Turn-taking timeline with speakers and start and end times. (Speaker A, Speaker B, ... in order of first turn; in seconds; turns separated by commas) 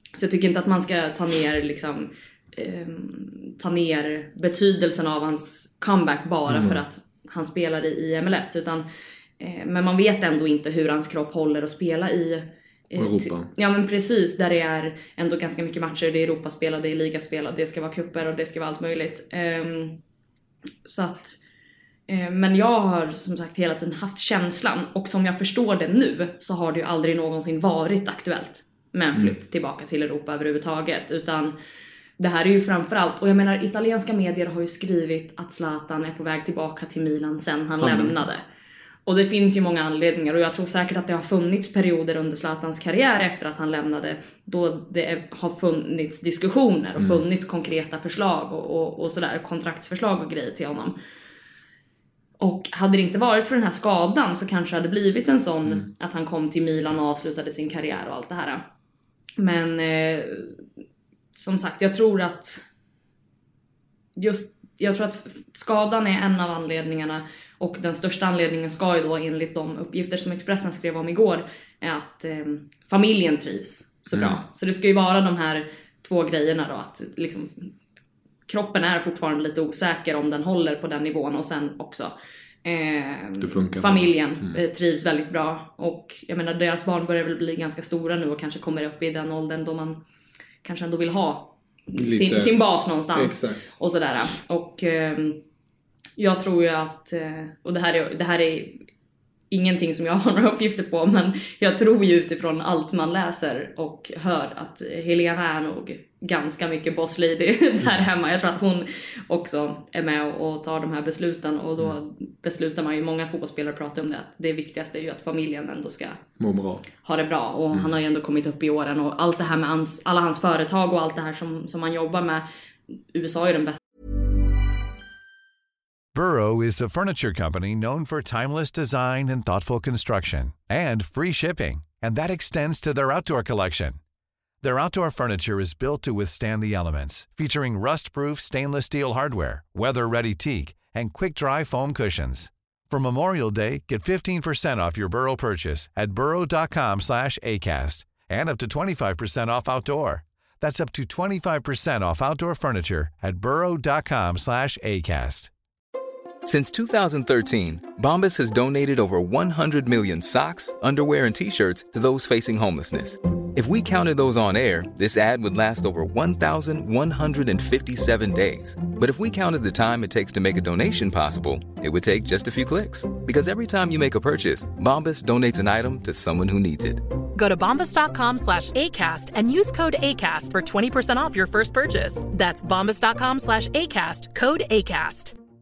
Speaker A: 0.2-8.9, Speaker B: 6.5-6.8, Speaker A: 9.4-20.0, Speaker B: 13.0-13.5, Speaker A: 20.9-21.4, Speaker A: 22.1-31.6, Speaker A: 32.2-38.4, Speaker B: 37.8-38.2, Speaker A: 39.1-51.0, Speaker B: 47.0-47.2, Speaker A: 52.4-58.6, Speaker A: 59.4-60.6, Speaker A: 61.3-62.7, Speaker A: 64.2-77.7, Speaker B: 74.1-74.4, Speaker A: 78.5-82.1, Speaker A: 82.7-90.0, Speaker B: 83.4-84.6, Speaker A: 90.6-95.4, Speaker B: 92.0-92.6, Speaker B: 93.1-93.7, Speaker A: 96.2-98.8, Speaker A: 99.5-116.2, Speaker B: 116.4-116.9, Speaker A: 117.0-122.5, Speaker A: 123.1-123.8, Speaker C: 126.1-134.0, Speaker C: 134.6-155.5, Speaker D: 156.4-177.0, Speaker E: 177.3-185.3